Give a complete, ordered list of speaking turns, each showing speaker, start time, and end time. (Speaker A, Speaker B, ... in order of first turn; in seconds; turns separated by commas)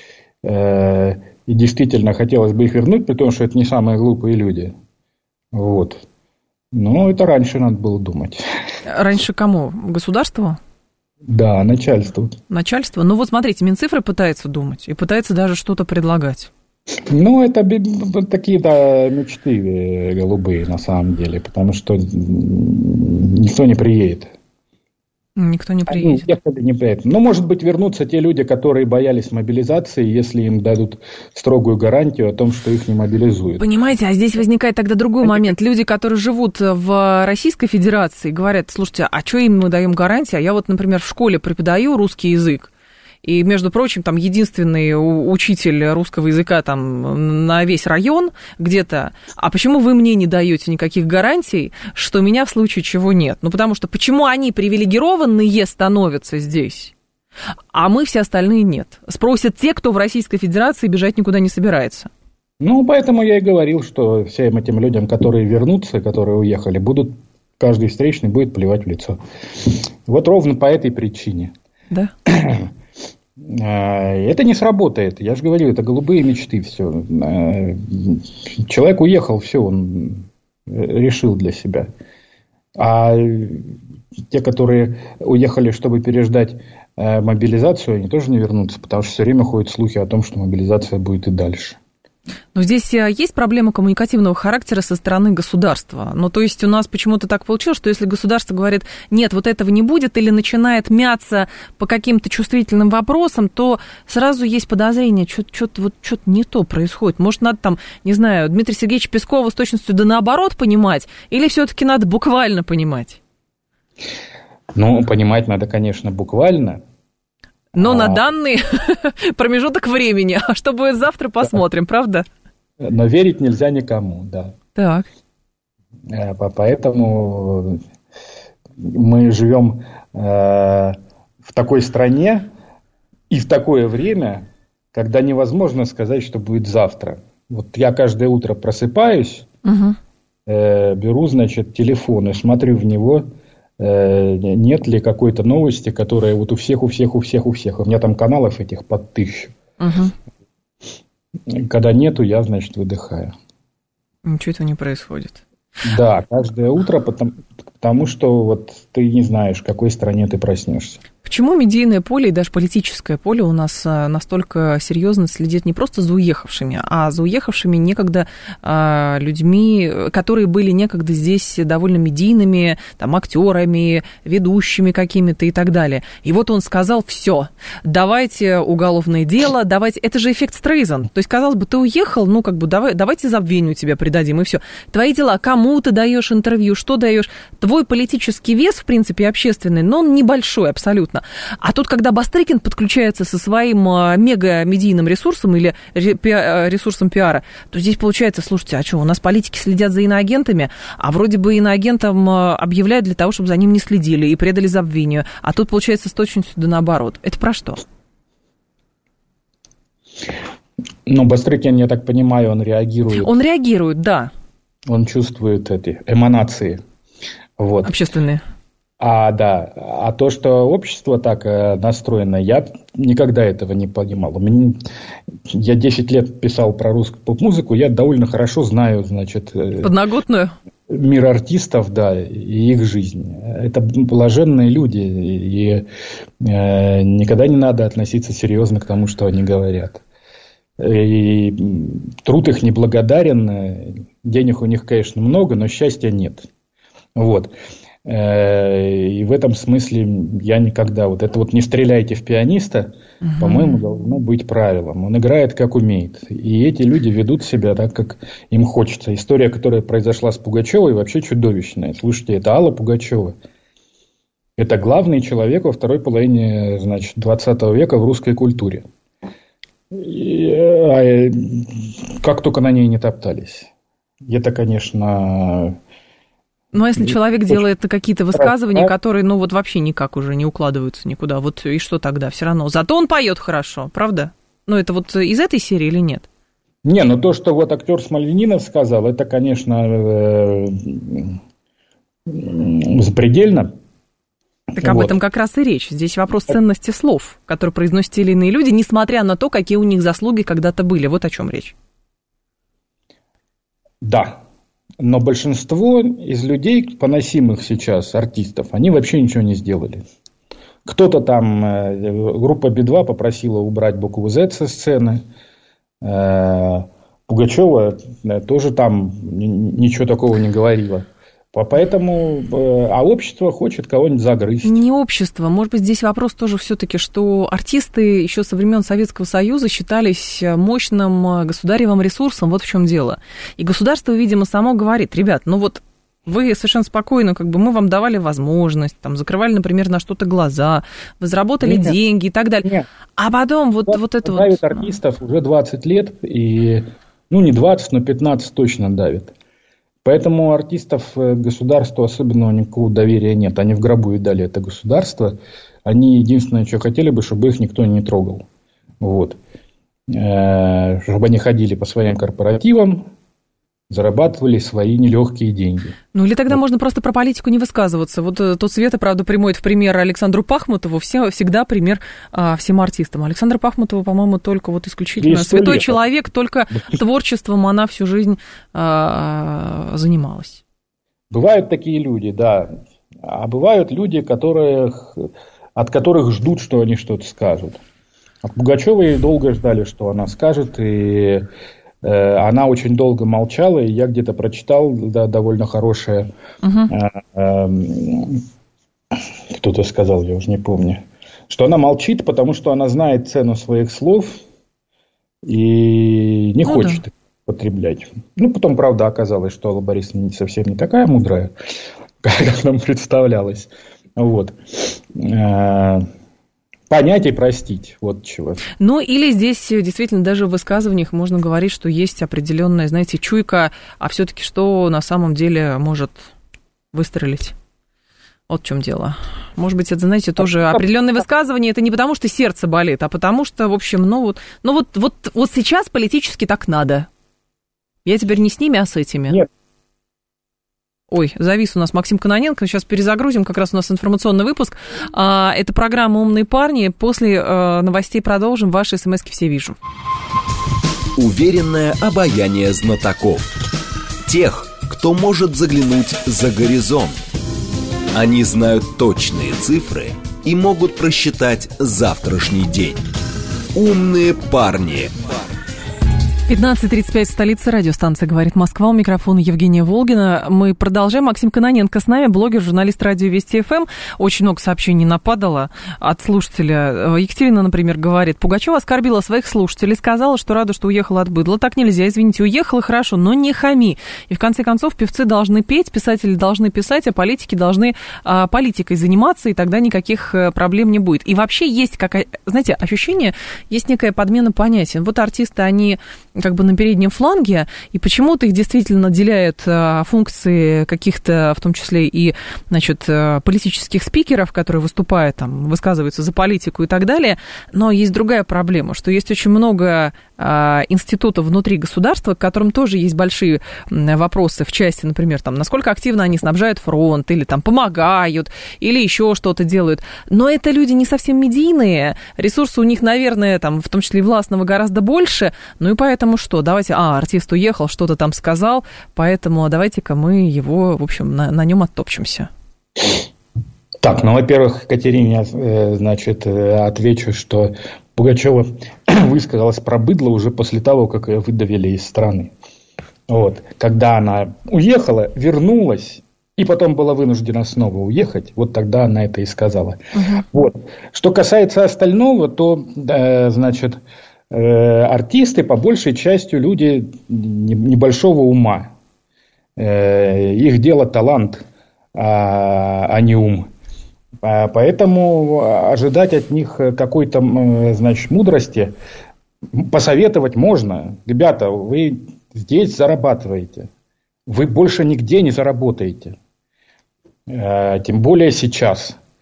Speaker A: 0.4-4.7, Speaker A: 5.5-6.0, Speaker A: 6.7-8.4, Speaker B: 8.8-10.6, Speaker A: 11.3-12.3, Speaker B: 12.5-16.5, Speaker A: 17.1-24.3, Speaker B: 25.4-26.3, Speaker A: 25.9-33.6, Speaker B: 33.6-42.7, Speaker A: 35.2-35.5, Speaker B: 43.2-56.9, Speaker B: 57.7-62.1, Speaker A: 62.6-71.5, Speaker A: 72.2-72.7, Speaker A: 73.4-81.9, Speaker A: 82.8-83.7, Speaker A: 84.3-91.8, Speaker B: 92.5-113.2, Speaker A: 114.7-116.8, Speaker B: 117.7-122.2, Speaker A: 117.8-118.2, Speaker A: 122.8-124.6, Speaker B: 124.8-125.1, Speaker A: 126.1-127.8, Speaker A: 128.8-132.5, Speaker A: 133.3-139.5, Speaker B: 139.6-140.0, Speaker A: 140.4-143.3, Speaker A: 143.8-149.5, Speaker B: 149.8-150.1, Speaker A: 151.5-153.3, Speaker B: 154.3-155.4, Speaker A: 155.8-161.0, Speaker B: 161.2-207.8, Speaker A: 211.1-213.3, Speaker B: 213.1-214.3, Speaker A: 214.9-216.8, Speaker A: 217.6-217.9, Speaker B: 217.8-218.4, Speaker A: 219.0-224.8, Speaker A: 225.5-229.9, Speaker B: 229.8-230.5, Speaker A: 230.9-235.9, Speaker A: 236.4-240.0, Speaker A: 240.8-246.5, Speaker A: 247.1-247.5, Speaker A: 248.0-263.4, Speaker B: 253.2-253.8, Speaker A: 264.6-268.9, Speaker A: 269.9-273.7, Speaker A: 274.2-275.8, Speaker B: 276.7-286.2, Speaker A: 277.0-277.6, Speaker A: 278.3-278.9, Speaker A: 286.8-291.4, Speaker A: 292.3-293.7, Speaker A: 294.7-295.2, Speaker B: 294.8-301.7, Speaker A: 304.0-304.4, Speaker A: 305.0-310.0, Speaker A: 310.9-315.2, Speaker A: 316.0-324.8, Speaker B: 324.6-344.9, Speaker A: 341.6-342.0, Speaker A: 343.9-349.3, Speaker A: 350.0-358.4, Speaker A: 359.0-359.4, Speaker A: 360.1-363.1, Speaker A: 363.9-366.0, Speaker B: 366.1-380.6, Speaker A: 375.2-376.0, Speaker A: 381.3-387.8, Speaker A: 388.4-391.5, Speaker A: 392.0-396.3, Speaker B: 396.6-396.9, Speaker A: 396.9-398.4, Speaker A: 399.1-404.4, Speaker A: 405.4-411.5, Speaker B: 406.6-407.0, Speaker A: 412.2-416.1, Speaker A: 416.9-418.6, Speaker B: 418.8-426.3, Speaker B: 426.9-427.5, Speaker B: 428.5-437.1, Speaker B: 438.0-439.4, Speaker B: 441.1-449.8, Speaker C: 451.1-453.5, Speaker C: 454.2-457.2, Speaker C: 458.1-463.0, Speaker C: 463.7-465.6, Speaker B: 466.5-532.5, Speaker A: 534.0-542.5, Speaker A: 543.3-554.0, Speaker B: 550.1-550.4, Speaker A: 554.5-558.9, Speaker A: 559.8-563.7, Speaker A: 564.4-568.9, Speaker A: 569.7-573.9, Speaker A: 574.5-576.4, Speaker A: 577.5-579.2